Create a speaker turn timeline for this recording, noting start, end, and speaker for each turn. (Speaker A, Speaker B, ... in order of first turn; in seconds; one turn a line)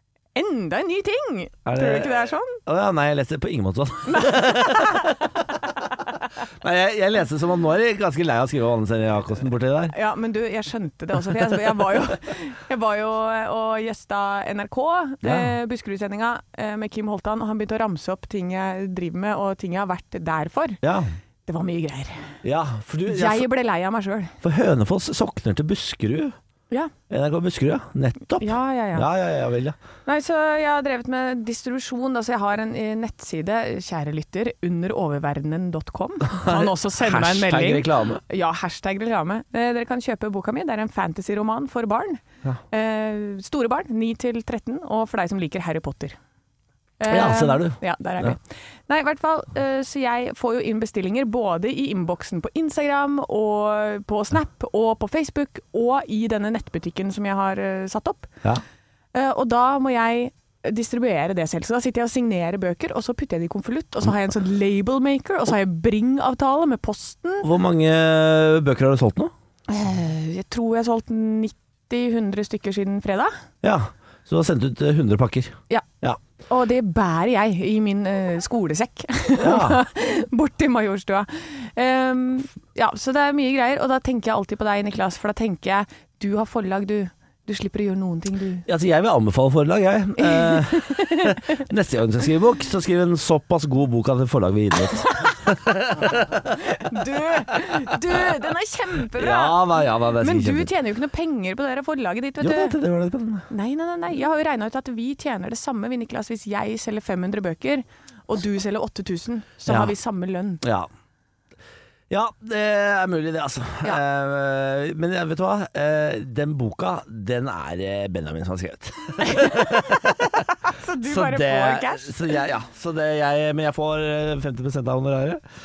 Speaker A: 0.3-2.6
Speaker B: 1.7-5.4
Speaker A: 4.1-5.4
Speaker B: 6.6-9.9
Speaker A: 9.9-20.8
Speaker B: 15.2-15.5
Speaker B: 20.8-21.1
Speaker A: 21.5-22.3
Speaker B: 22.4-23.5
Speaker A: 23.1-24.3
Speaker B: 24.4-26.4
Speaker B: 27.1-29.8
Speaker A: 28.4-29.1
Speaker A: 30.1-46.2
Speaker B: 36.3-38.2
Speaker A: 47.0-58.3
Speaker B: 47.1-48.4
Speaker A: 59.1-67.5
Speaker B: 67.4-69.3
Speaker A: 69.7-73.3
Speaker B: 73.6-76.2
Speaker A: 76.5-88.7
Speaker B: 79.4-79.8
Speaker B: 88.7-96.6
Speaker A: 90.2-91.4
Speaker A: 96.7-99.6
Speaker B: 97.5-98.3
Speaker B: 99.1-100.7
Speaker A: 100.2-102.8
Speaker B: 102.4-103.5
Speaker A: 103.5-110.6
Speaker B: 109.7-109.9
Speaker B: 110.6-110.9
Speaker B: 112.1-120.3
Speaker A: 119.2-122.3
Speaker B: 121.0-125.4